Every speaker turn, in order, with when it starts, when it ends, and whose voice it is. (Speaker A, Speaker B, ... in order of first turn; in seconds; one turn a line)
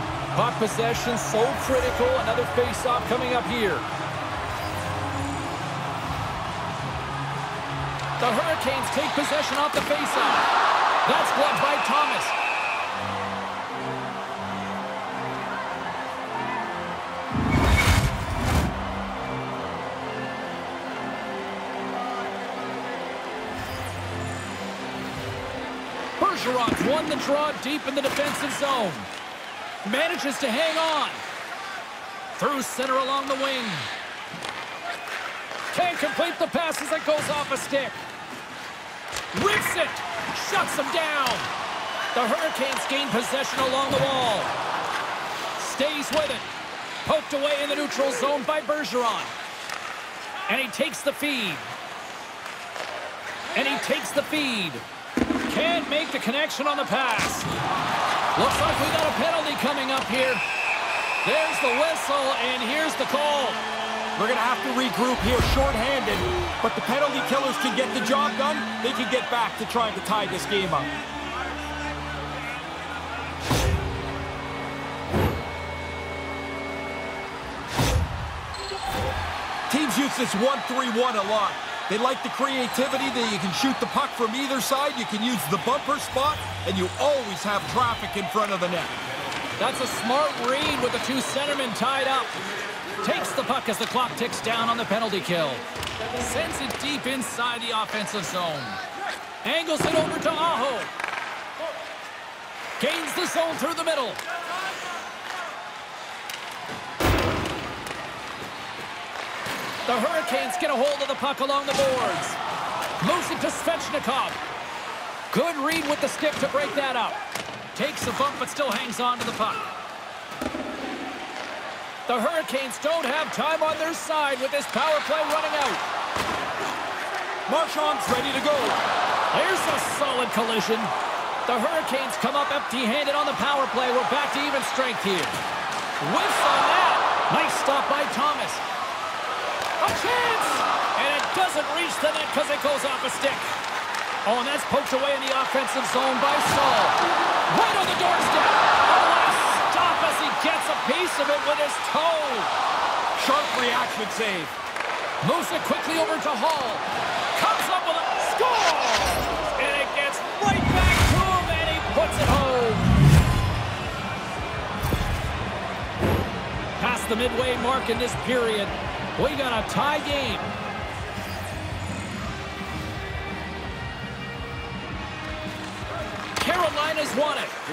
Speaker A: 0.3-3.9
Speaker A: 8.2-10.5
Speaker A: 11.0-12.3
Speaker A: 26.2-29.1
Speaker A: 29.8-31.2
Speaker A: 32.3-33.9
Speaker A: 35.7-38.0
Speaker A: 39.3-41.5
Speaker A: 42.1-44.5
Speaker A: 45.6-46.5
Speaker A: 47.0-49.3
Speaker A: 50.5-51.7
Speaker A: 53.5-54.8
Speaker A: 55.5-57.5
Speaker A: 58.4-60.4
Speaker A: 61.2-63.6
Speaker B: 64.2-70.9
Speaker B: 79.7-89.0
Speaker A: 89.6-92.3
Speaker A: 93.0-98.8
Speaker A: 99.4-100.9
Speaker A: 102.8-104.2
Speaker A: 109.8-112.4
Speaker A: 113.0-114.4
Speaker A: 115.3-117.2
Speaker A: 117.7-119.7
Speaker A: 122.1-125.8
Speaker B: 127.5-128.8
Speaker A: 129.3-130.9
Speaker A: 131.4-135.4
Speaker A: 136.0-138.6
Speaker A: 139.8-143.5
Speaker A: 144.2-147.0
Speaker A: 147.5-152.5
Speaker B: 153.1-154.5
Speaker A: 155.2-162.9
Speaker A: 166.8-170.5
Speaker A: 176.3-177.6